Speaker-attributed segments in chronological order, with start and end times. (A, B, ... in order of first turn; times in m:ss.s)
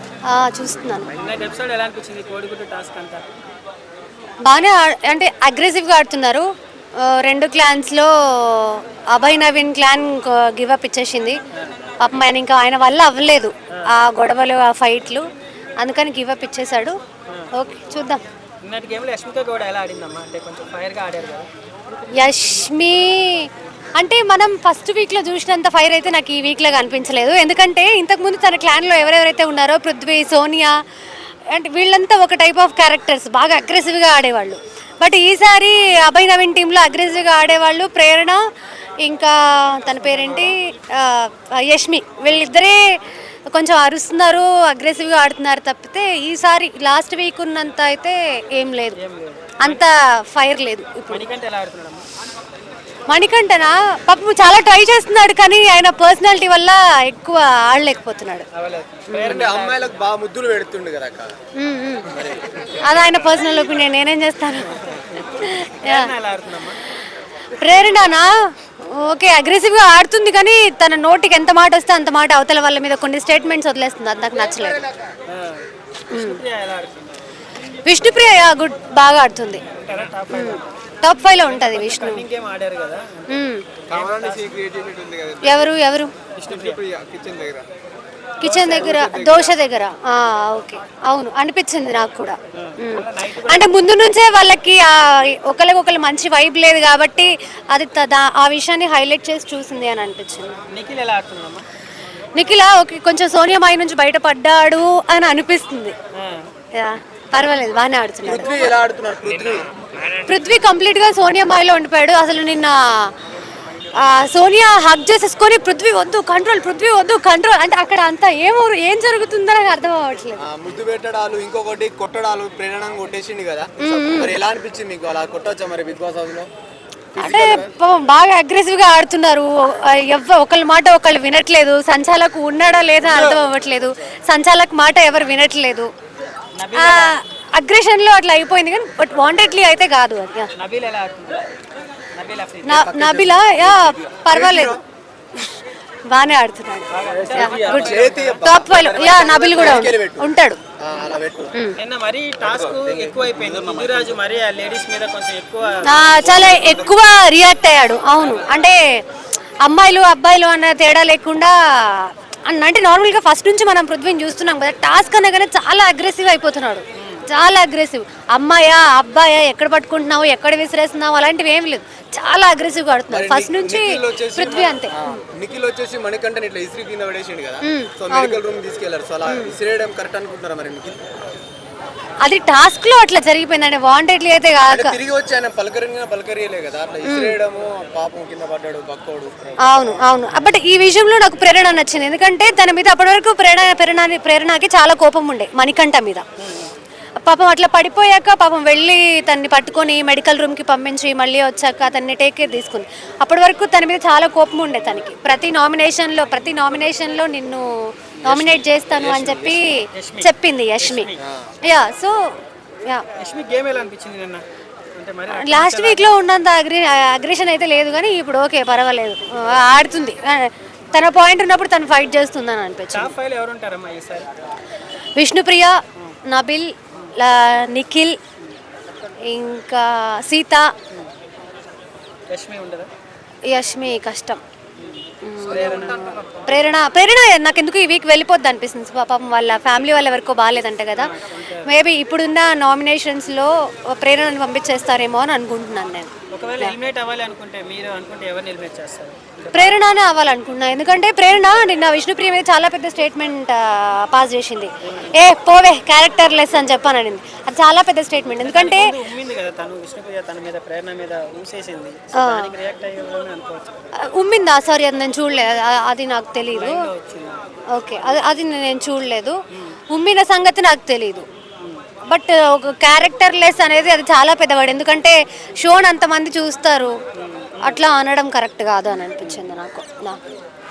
0:00.3-0:01.1 A
0:01.2-0:03.2 B
0:04.4-0:06.4 A
0:07.0-0:11.4 A
0:12.0-0:15.2 A
0:15.8-0:16.9 A
0:17.5-0:18.2 A
0:18.6-0:21.5 B
0:22.2-0:30.7 A
0:31.5-0:38.4 A
0:39.0-0:42.8 A
0:40.2-0:40.5 B
0:43.5-0:49.0 A
0:49.0-0:49.8 B
0:49.6-0:51.2 A
0:51.1-0:52.0 B
0:53.1-0:58.4 A
0:58.5-0:59.8 B
0:59.1-0:59.4 A
0:59.2-1:01.3 C
1:01.6-1:02.1 A
1:02.1-1:02.6 C
1:02.8-1:06.1 A
1:05.8-1:06.8 B
1:07.6-1:08.3 A
1:08.9-1:14.8 A
1:15.3-1:17.2 B
1:16.1-1:16.4 A
1:17.8-1:19.6 A
1:19.7-1:20.6 B
1:20.3-1:22.2 A
1:21.3-1:23.3 B
1:23.3-1:23.6 A
1:23.9-1:24.4 B
1:23.9-1:25.6 C
1:25.4-1:26.1 A
1:26.4-1:26.8 B
1:26.5-1:27.6 C
1:28.4-1:40.5 A
1:28.4-1:29.5 C
1:32.6-1:33.6 B
1:40.7-1:41.6 B
1:42.3-1:45.9 A
1:46.2-1:46.4 B
1:46.8-1:48.7 A
1:48.2-1:49.6 C
1:50.1-1:53.1 A
1:54.0-2:00.4 A
2:00.4-2:06.5 C
2:03.8-2:04.3 A
2:07.2-2:07.7 C
2:07.2-2:15.9 A
2:13.0-2:13.3 B
2:16.6-2:17.2 B
2:16.7-2:20.5 A
2:20.6-2:21.4 B
2:22.1-2:22.9 B
2:22.6-2:24.8 A
2:22.7-2:24.8 C
2:25.4-2:30.6 A
2:26.9-2:29.8 B
2:27.2-2:30.3 C
2:30.8-2:31.5 C
2:31.8-2:36.8 B
2:32.4-2:34.0 C
2:35.8-2:39.0 A
2:39.6-2:55.2 A
2:53.1-3:01.0 C
2:57.6-2:58.4 A
3:02.2-3:05.0 A
3:04.7-3:09.5 C
3:07.1-3:07.4 A
3:09.6-3:16.2 A
3:17.2-3:27.6 A
3:28.2-3:29.6 C
3:28.2-3:31.1 A
3:29.9-3:31.2 B
3:31.2-3:31.5 C
3:31.6-3:33.0 A
3:33.2-3:34.4 B
3:34.9-3:36.1 B
3:35.3-3:43.1 A
3:42.9-3:44.3 B
3:45.2-3:45.8 A
3:46.3-3:48.1 A
3:49.3-3:50.6 A
3:52.3-3:52.9 B
3:53.5-3:54.4 A
3:54.8-3:56.4 B
3:55.2-4:01.1 A
4:01.0-4:01.6 B
4:01.6-4:06.7 A
4:06.3-4:09.8 B
4:09.5-4:18.9 A
4:18.4-4:23.7 B
4:22.2-4:22.5 A
4:24.1-4:26.8 A
4:26.5-4:27.4 B
4:27.7-4:29.4 A
4:29.9-4:31.2 A
4:32.1-4:36.9 A
4:37.2-4:37.8 B
4:37.6-4:40.2 A